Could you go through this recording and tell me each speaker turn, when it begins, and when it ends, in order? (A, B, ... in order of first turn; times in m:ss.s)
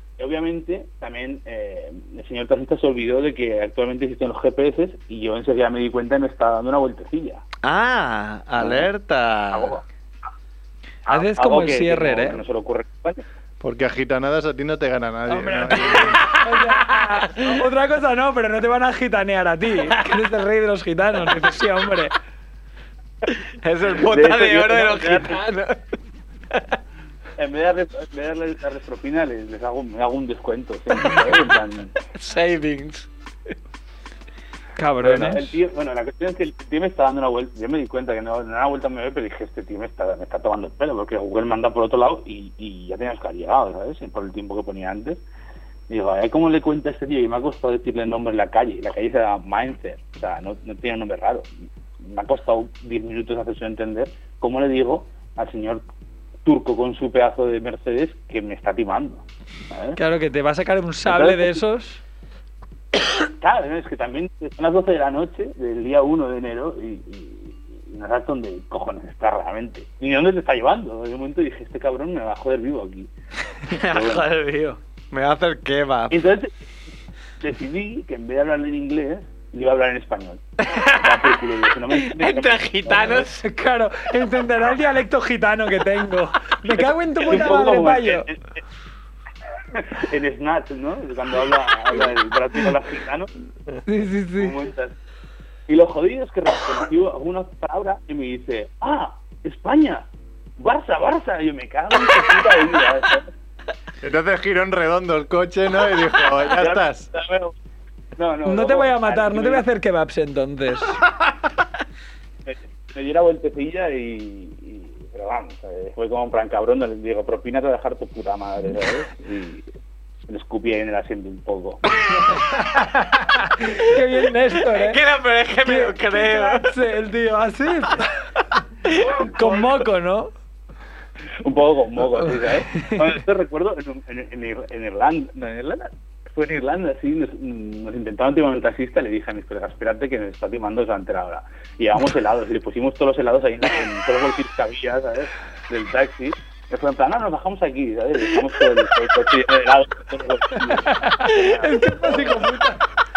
0:00.2-0:07.4 A
0:07.6-0:09.8 B
0:08.6-0:08.9 A
0:09.5-0:09.8 A
0:11.1-0:13.2 A
0:11.1-0:12.4 C
0:13.6-0:16.2 D
0:15.3-0:22.2 C
0:16.1-0:17.6 B
0:23.3-0:25.8 B
0:24.0-0:25.4 A
0:27.4-0:31.9 A
0:31.0-0:31.5 B
0:32.0-0:33.1 B
0:34.8-0:35.6 C
0:35.0-0:45.2 A
0:45.9-0:51.5 A
0:52.0-0:55.8 A
0:56.4-1:00.0 A
1:00.0-1:02.0 C
1:01.0-1:01.6 A
1:03.4-1:13.1 A
1:13.7-1:16.2 B
1:13.9-1:14.3 A
1:16.1-1:16.5 A
1:17.4-1:20.4 A
1:20.6-1:23.4 B
1:21.0-1:23.2 A
1:23.4-1:28.3 C
1:26.7-1:28.6 A
1:29.8-1:33.3 A
1:33.9-1:34.6 C
1:34.4-1:35.0 A
1:35.7-1:40.1 A
1:40.6-1:43.3 A
1:44.0-1:47.1 D
1:46.5-1:47.6 A
1:48.2-1:49.6 A
1:48.4-1:51.0 C
1:52.5-1:59.7 A
2:00.3-2:01.8 A
2:02.3-2:02.8 C
2:03.7-2:05.0 C
2:04.6-2:06.8 B
2:05.6-2:08.1 C
2:09.1-2:10.3 C
2:11.4-2:32.5 A
2:12.2-2:13.2 C
2:30.6-2:32.8 C